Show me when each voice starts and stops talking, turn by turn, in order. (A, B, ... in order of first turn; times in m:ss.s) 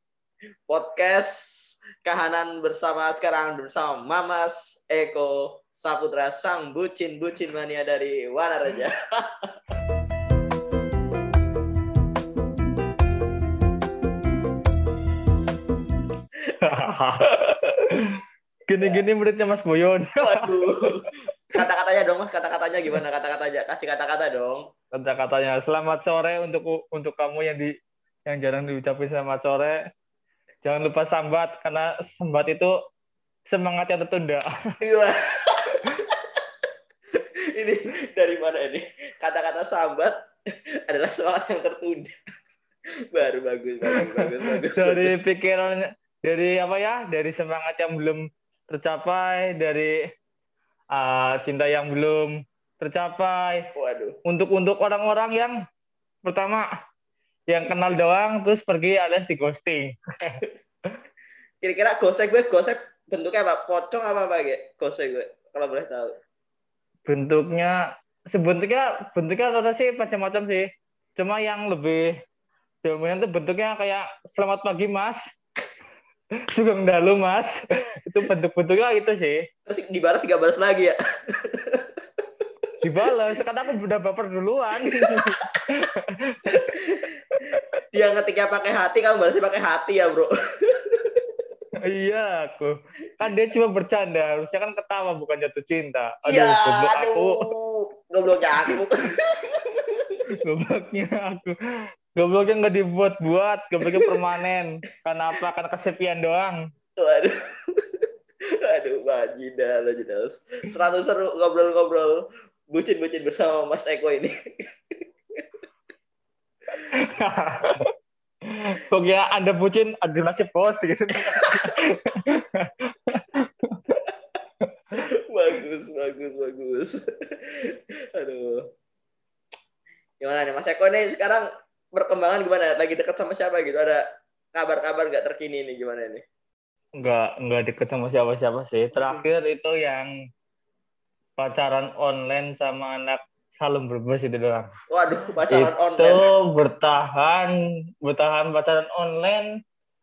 0:00.7-0:09.5 A
0:16.6-0:17.9 B
0:18.7-0:20.5 B
0:20.2-0:24.6 A
0:24.9-0:27.7 B
0:28.3-0:29.8 B
0:30.6-0:32.7 B
0:33.5-0:34.4 B
0:34.8-0:36.4 A
0:37.1-0:40.1 A
0:40.9-0:42.1 A
0:43.1-0:45.2 A
0:43.8-0:49.9 B
0:50.9-0:53.6 B
0:53.7-0:54.2 A
0:54.2-0:55.5 B
0:56.2-0:56.6 B
0:57.5-1:00.4 B
1:01.6-1:06.1 A
1:07.0-1:07.7 B
1:08.3-1:10.7 B
1:11.2-1:12.1 B
1:12.8-1:15.2 B
1:16.5-1:19.4 B
1:19.7-1:22.4 A
1:22.8-1:26.8 B
1:24.8-1:25.6 A
1:26.5-1:27.1 A
1:27.3-1:27.7 B
1:27.9-1:31.3 A
1:31.8-1:37.4 B
1:36.2-1:40.2 A
1:40.3-1:41.5 B
1:42.2-1:46.6 B
1:43.8-1:44.2 A
1:47.0-1:52.2 A
1:52.7-1:54.3 A
1:54.9-1:55.4 A
1:56.8-1:57.9 B
1:58.5-2:04.0 B
2:01.5-2:01.7 A
2:05.2-2:08.6 A
2:10.2-2:14.0 A
2:14.5-2:16.2 A
2:17.0-2:20.1 B
2:18.9-2:19.3 A
2:21.4-2:24.7 B
2:24.9-2:26.2 A
2:25.5-2:29.4 B